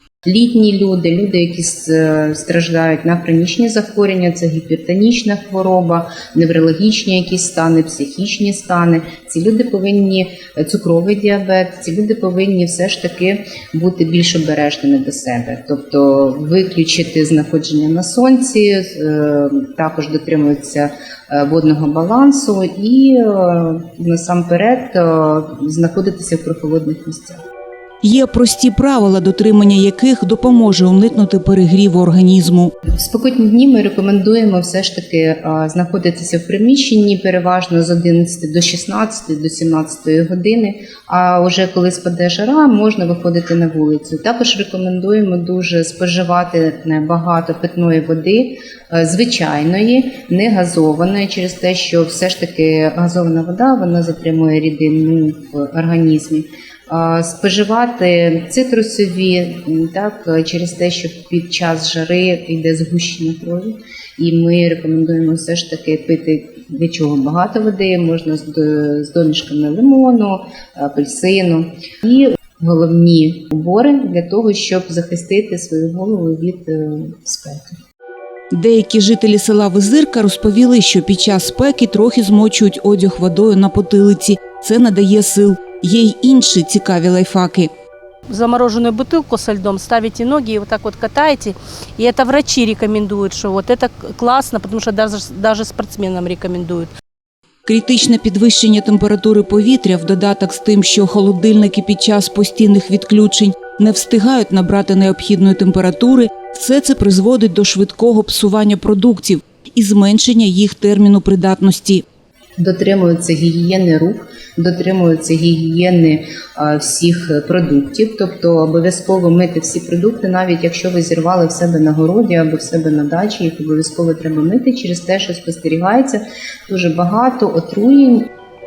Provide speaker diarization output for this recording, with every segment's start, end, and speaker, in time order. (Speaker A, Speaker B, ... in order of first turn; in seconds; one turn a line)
Speaker A: 0.2-27.4
Speaker B: 28.0-32.7
Speaker A: 32.9-77.8
Speaker B: 78.5-87.7
Speaker C: 88.3-96.9
Speaker B: 97.6-112.0
Speaker A: 112.6-128.3